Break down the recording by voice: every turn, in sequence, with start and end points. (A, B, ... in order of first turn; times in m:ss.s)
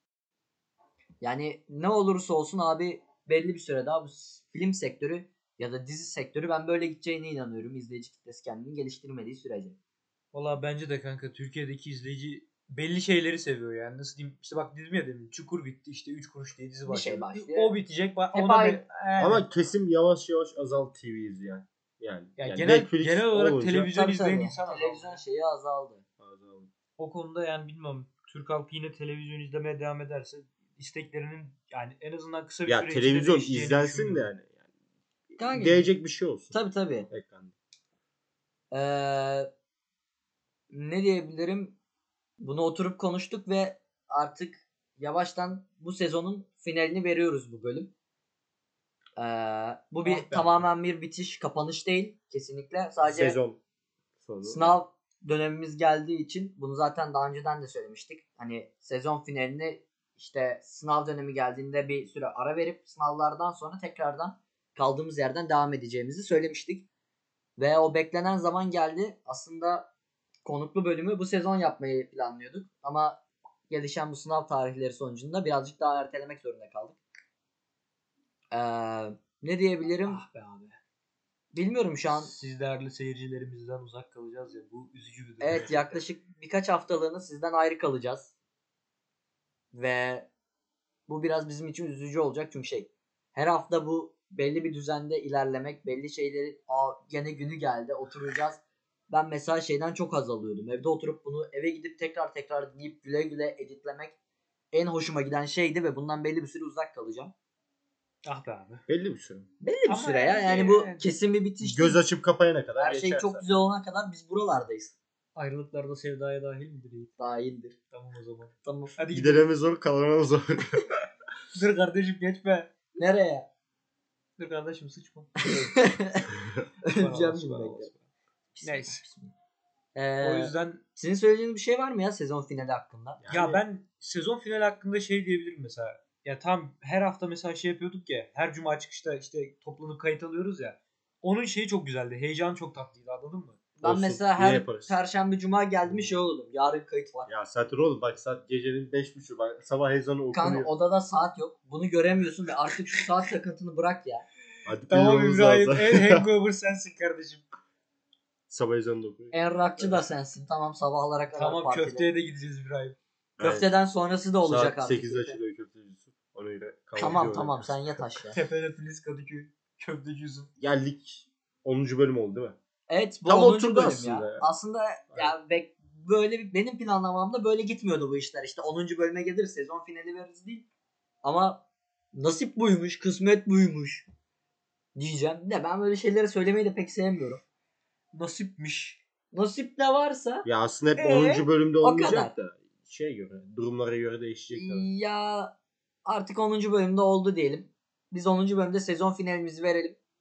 0:01.2-0:09.8 A
0:10.3-0:19.4 B
0:16.9-0:17.7 A
0:18.3-0:18.8 A
0:19.2-0:23.9 C
0:22.4-0:25.2 B
0:23.9-0:26.0 A
0:26.2-0:26.7 C
0:27.0-0:34.3 B
0:32.6-0:34.6 C
0:35.4-0:35.9 A
0:35.4-0:36.5 C
0:36.5-0:37.1 A
0:37.1-0:37.5 C
0:38.7-0:39.5 A
0:40.7-0:41.8 A
0:42.4-0:47.9 A
0:49.2-0:53.4 A
0:50.0-0:50.5 B
0:53.0-0:53.6 C
0:54.2-0:54.8 C
0:54.4-1:06.8 A
1:07.6-1:09.9 A
1:10.4-1:13.2 A
1:13.7-1:17.0 A
1:18.5-1:20.2 A
1:20.0-1:20.8 B
1:21.5-1:22.3 A
1:22.1-1:26.0 B
1:25.4-1:28.3 A
1:29.7-1:30.3 A
1:31.1-1:44.1 A
1:44.7-1:47.3 A
1:48.2-1:48.8 B
1:48.9-1:49.5 C
1:49.6-1:52.0 A
1:49.9-1:51.1 B
1:51.6-1:53.4 C
1:52.8-1:55.0 A
1:55.4-1:57.1 B
1:57.2-1:57.7 A
1:57.9-1:59.4 B
1:58.6-1:58.9 A
1:59.1-2:01.0 C
2:01.5-2:02.7 B
2:03.0-2:03.4 A
2:04.4-2:05.8 B
2:05.4-2:06.3 A
2:06.4-2:06.6 C
2:06.8-2:07.9 A
2:06.8-2:08.0 B
2:08.5-2:09.3 A
2:08.6-2:09.0 B
2:09.9-2:13.2 A
2:10.2-2:10.8 B
2:13.2-2:13.6 C
2:13.3-2:23.6 B
2:23.8-2:27.3 A
2:23.8-2:25.0 C
2:25.9-2:26.2 C
2:27.3-2:30.7 C
2:30.3-2:34.2 A
2:34.6-2:36.2 C
2:34.8-2:37.4 B
2:38.5-2:40.0 C
2:39.3-2:42.1 A
2:41.3-2:43.0 B
2:43.4-2:43.7 C
2:43.4-2:45.4 A
2:44.4-2:48.2 C
2:47.0-2:48.4 A
2:48.3-2:50.5 B
2:50.6-2:52.6 C
2:52.9-3:00.6 A
2:53.3-2:54.4 C
3:01.2-3:01.6 A
3:02.1-3:04.1 A
3:04.9-3:07.4 A
3:08.1-3:09.0 B
3:09.3-3:10.4 A
3:10.4-3:14.9 C
3:11.0-3:11.5 B
3:11.8-3:12.3 A
3:14.5-3:15.5 A
3:16.0-3:20.0 A